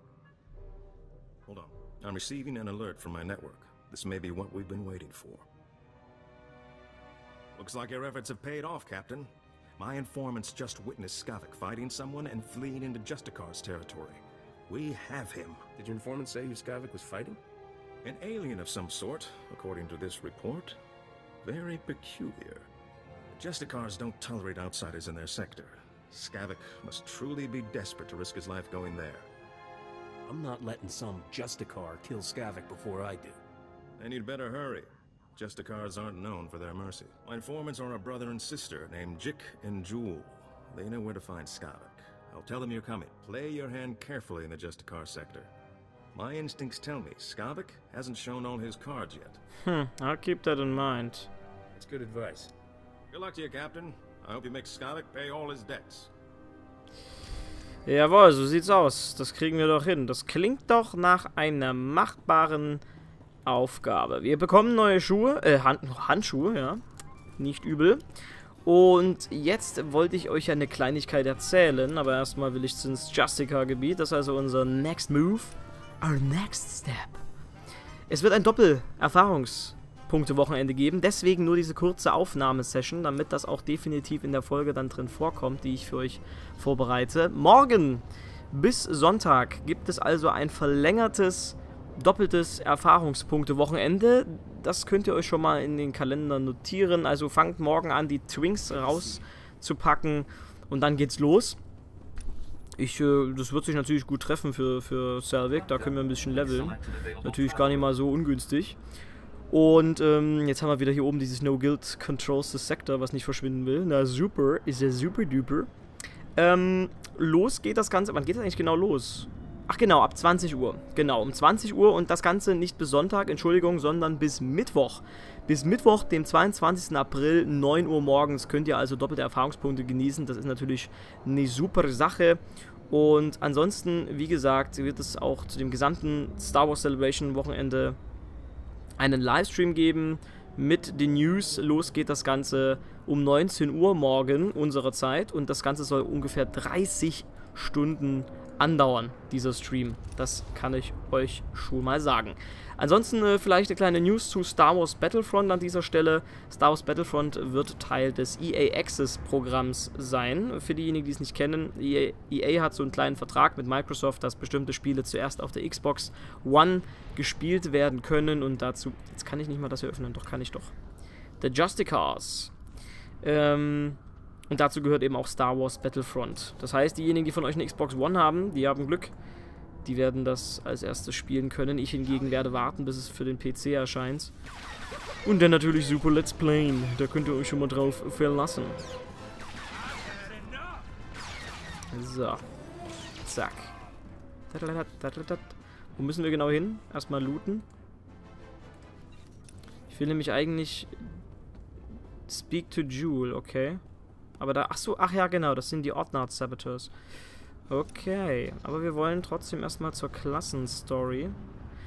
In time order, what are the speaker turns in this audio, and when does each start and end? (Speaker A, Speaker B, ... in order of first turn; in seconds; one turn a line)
Speaker A: 1.5-5.4
Speaker A: 7.5-15.6
Speaker B: 15.8-17.4
Speaker A: 18.0-20.8
Speaker A: 21.4-22.7
Speaker A: 23.3-29.3
Speaker B: 30.3-33.4
Speaker A: 34.0-45.5
Speaker A: 46.1-49.4
Speaker C: 49.6-51.3
Speaker B: 51.7-52.5
Speaker A: 53.1-56.1
Speaker C: 57.9-62.8
Speaker C: 63.4-66.8
Speaker C: 67.4-68.0
Speaker C: 68.6-77.2
Speaker C: 78.1-101.6
Speaker C: 102.8-108.8
Speaker C: 109.5-115.7
Speaker C: 116.3-138.0
Speaker C: 139.0-170.7
Speaker C: 171.4-172.5
Speaker C: 173.2-179.1
Speaker C: 179.8-184.3
Speaker C: 185.2-188.8
Speaker C: 191.9-192.4
Speaker C: 193.2-193.7
Speaker C: 194.5-197.6
Speaker C: 199.9-201.1
Speaker C: 202.3-203.8
Speaker C: 204.4-206.9
Speaker C: 207.7-211.4